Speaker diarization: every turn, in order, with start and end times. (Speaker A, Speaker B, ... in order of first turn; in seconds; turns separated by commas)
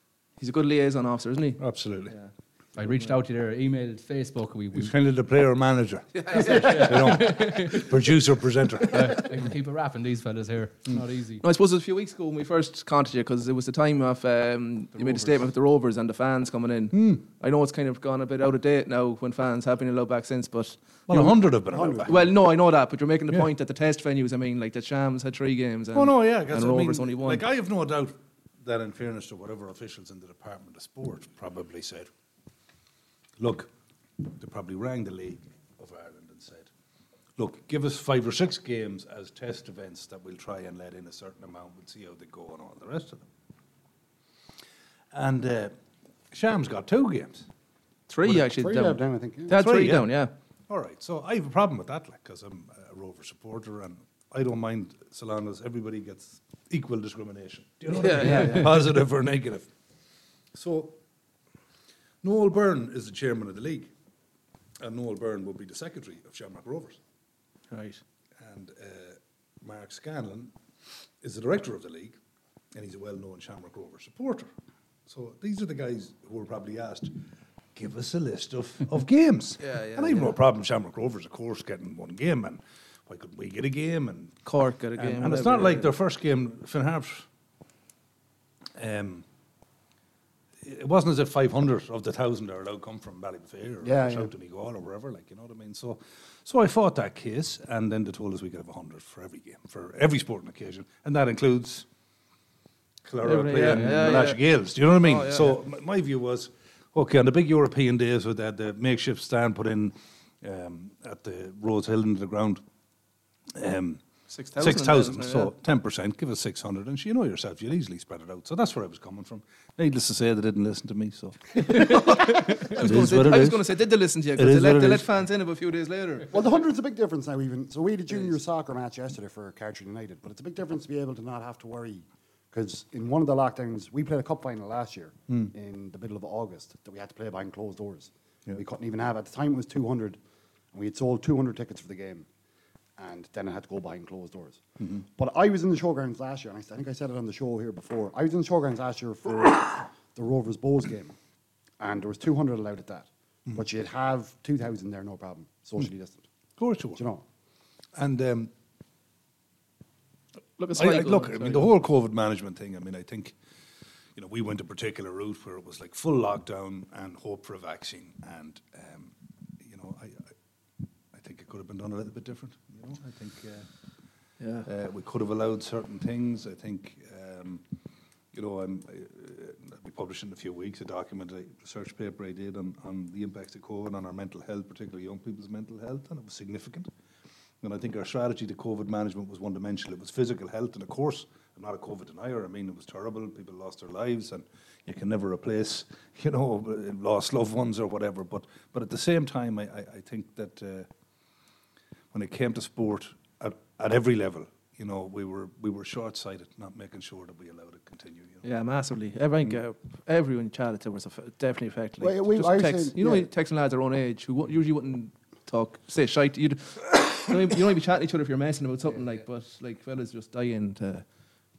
Speaker A: 0.4-3.1, Speaker B: 1.6-2.1, Speaker C: 2.8-4.9, Speaker B: 4.8-9.3, Speaker A: 6.1-7.5, Speaker C: 6.4-7.9, Speaker C: 8.9-11.4, Speaker A: 11.4-21.4, Speaker C: 15.0-15.3, Speaker B: 16.9-17.2, Speaker B: 21.1-22.2, Speaker D: 21.7-22.3, Speaker A: 22.1-27.4, Speaker B: 25.9-32.1, Speaker B: 33.4-36.7, Speaker B: 37.4-43.3, Speaker B: 45.1-45.7, Speaker B: 46.3-47.5, Speaker A: 48.1-50.3, Speaker D: 48.3-49.6, Speaker B: 49.5-59.7, Speaker A: 57.9-58.8, Speaker B: 60.5-61.0, Speaker B: 62.2-63.9, Speaker B: 64.8-67.0, Speaker A: 67.7-68.0, Speaker B: 68.4-70.5, Speaker B: 71.2-72.2, Speaker B: 72.7-74.5, Speaker B: 75.1-77.1, Speaker B: 77.8-84.4, Speaker A: 79.6-80.4, Speaker A: 84.5-85.9, Speaker B: 85.0-87.3, Speaker B: 88.8-89.2, Speaker B: 90.6-101.9, Speaker D: 93.8-94.3, Speaker B: 103.0-112.6, Speaker A: 103.2-104.4, Speaker C: 103.6-104.2, Speaker A: 105.0-105.6, Speaker B: 113.5-114.0, Speaker A: 114.3-115.5, Speaker B: 114.6-123.8, Speaker A: 121.6-126.3, Speaker B: 124.4-125.2, Speaker D: 126.3-140.2, Speaker D: 140.7-142.3, Speaker D: 143.0-144.6, Speaker B: 144.8-145.1, Speaker D: 145.2-151.2, Speaker D: 151.8-156.2, Speaker B: 156.6-157.0, Speaker D: 157.0-157.2, Speaker B: 158.0-158.5, Speaker A: 160.6-161.7, Speaker B: 160.7-163.3, Speaker B: 164.2-170.3, Speaker B: 171.1-173.7, Speaker A: 174.4-174.7, Speaker B: 174.7-177.6, Speaker B: 178.3-186.9, Speaker B: 187.6-200.9, Speaker B: 202.1-208.4, Speaker A: 208.4-221.1, Speaker D: 212.0-213.3